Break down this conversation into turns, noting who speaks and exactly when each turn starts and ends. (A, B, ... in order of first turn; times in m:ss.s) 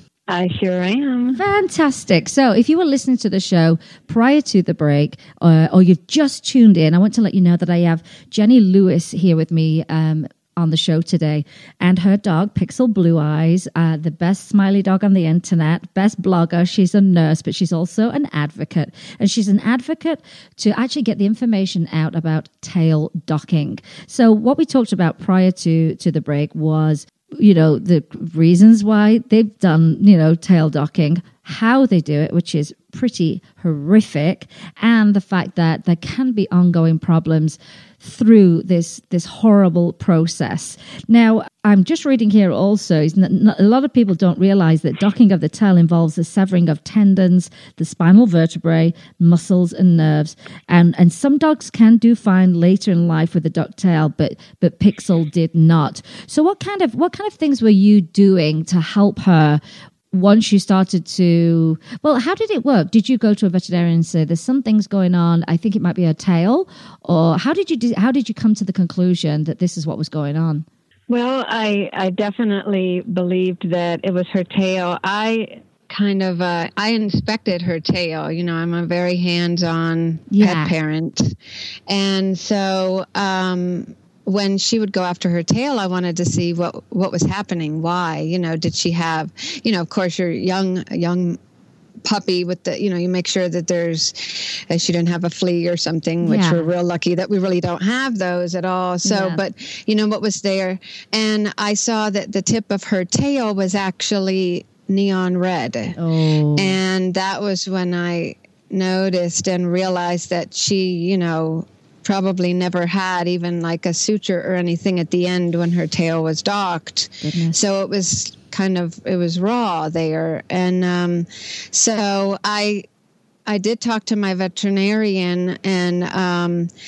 0:00.3-0:01.4 A
0:01.4-1:10.6 B
1:11.1-1:21.4 A
1:20.3-1:20.7 B
1:21.9-1:31.4 A
1:32.0-1:46.0 A
1:36.2-1:36.7 B
1:39.0-1:39.4 B
1:46.0-1:46.8 B
1:46.6-2:02.9 A
1:57.2-1:57.6 B
2:03.5-2:06.7 A